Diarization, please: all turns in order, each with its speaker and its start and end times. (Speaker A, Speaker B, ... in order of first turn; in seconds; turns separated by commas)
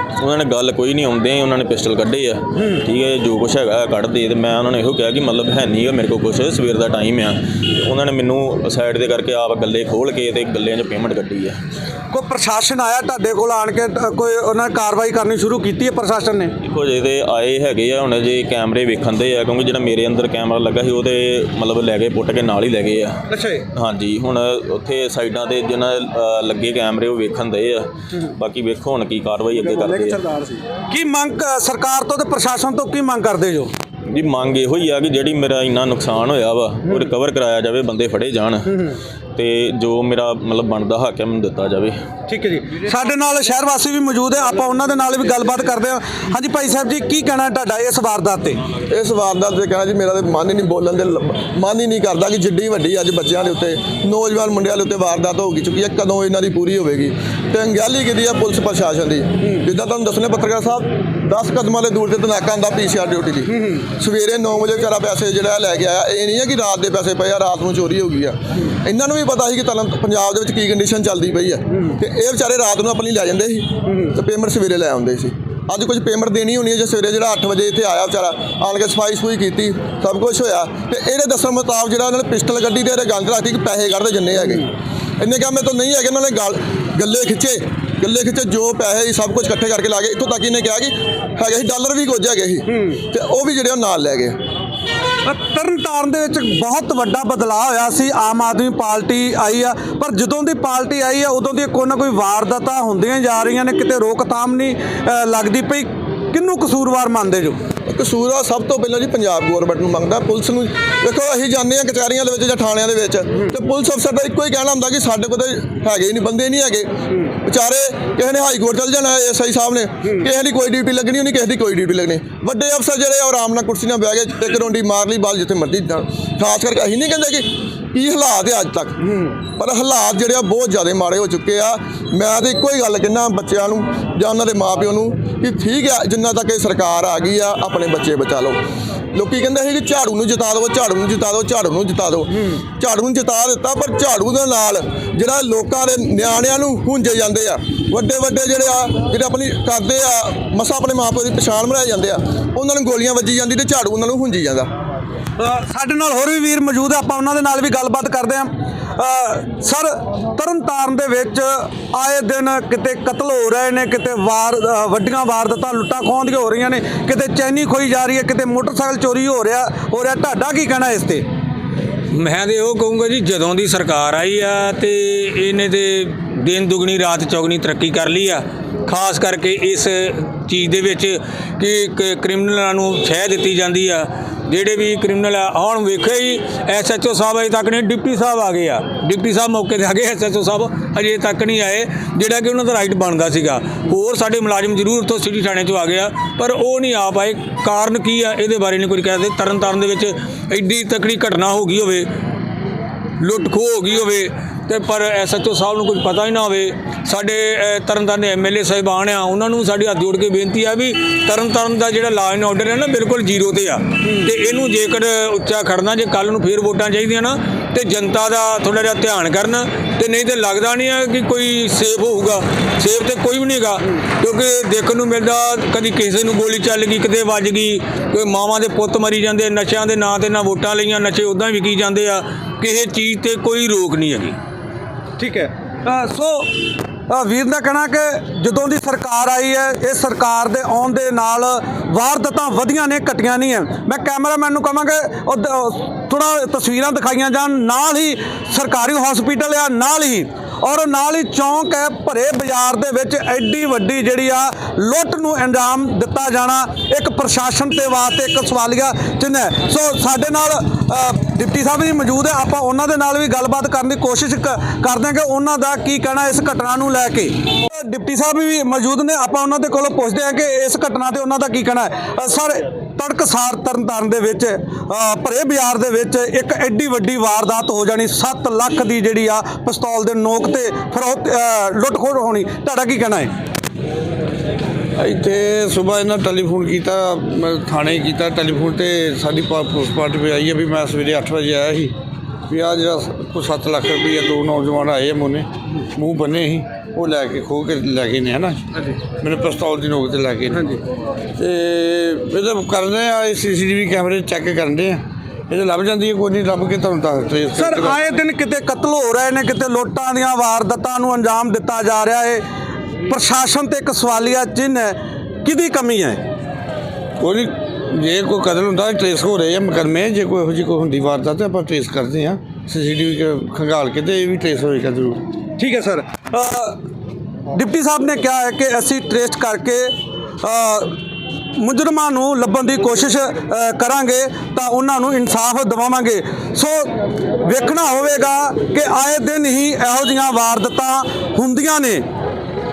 Speaker A: 0.2-11.6, Speaker B: 12.1-16.5, Speaker A: 16.6-23.2, Speaker B: 23.3-23.6, Speaker A: 23.7-30.2, Speaker B: 29.8-33.7, Speaker A: 34.1-42.0, Speaker B: 42.3-48.6, Speaker C: 48.9-84.7, Speaker C: 85.2-94.4, Speaker B: 95.2-107.6, Speaker C: 107.9-138.6, Speaker C: 139.1-154.7, Speaker B: 155.4-171.2, Speaker D: 172.1-202.1, Speaker D: 203.2-234.3, Speaker B: 235.2-236.5, Speaker B: 237.1-283.3, Speaker E: 285.0-291.9, Speaker E: 292.5-298.6, Speaker E: 299.2-300.8, Speaker E: 301.4-308.0, Speaker B: 307.5-312.4, Speaker B: 313.1-316.2, Speaker E: 317.2-325.2, Speaker B: 325.6-326.8, Speaker B: 327.5-330.9, Speaker B: 331.6-342.0